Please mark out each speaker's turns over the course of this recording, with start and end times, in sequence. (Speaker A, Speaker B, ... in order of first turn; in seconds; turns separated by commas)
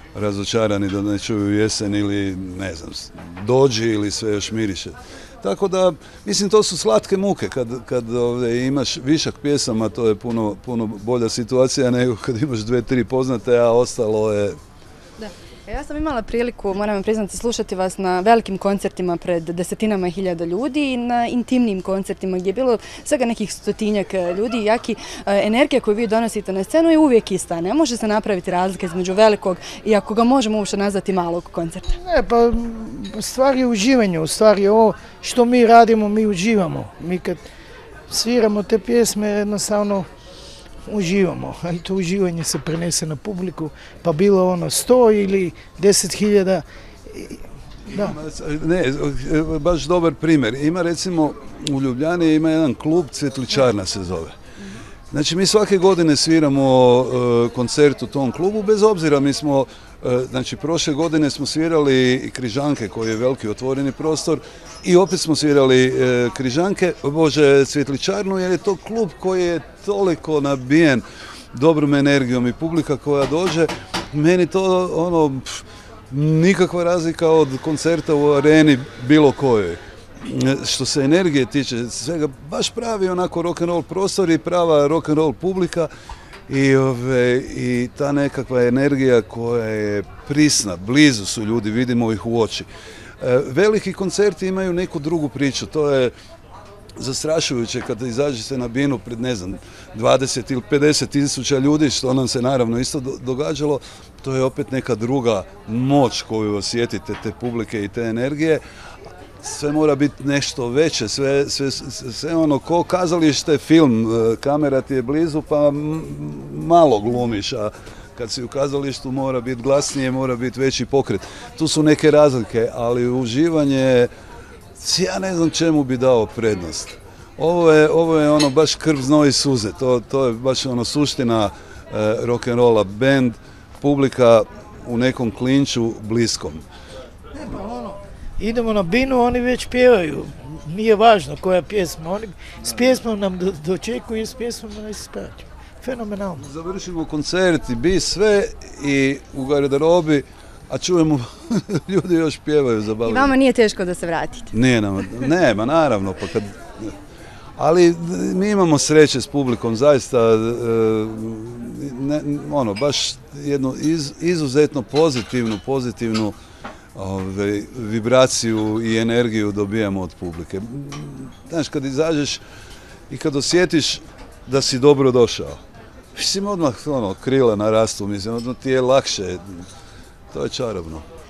Speaker A: 0.1-14.6, Speaker B: 15.2-32.0, Speaker C: 32.0-37.4, Speaker C: 38.1-40.1, Speaker C: 40.9-48.2, Speaker A: 47.9-54.3, Speaker A: 55.1-85.9, Speaker A: 86.5-92.7, Speaker A: 93.2-96.1, Speaker A: 97.0-108.6, Speaker A: 109.4-124.1, Speaker A: 124.8-136.6, Speaker C: 137.3-146.4, Speaker A: 146.4-153.3, Speaker B: 153.0-154.5, Speaker A: 154.5-156.9, Speaker A: 157.6-166.4, Speaker A: 167.0-172.4, Speaker A: 173.1-175.6, Speaker A: 176.2-179.4, Speaker A: 180.3-181.1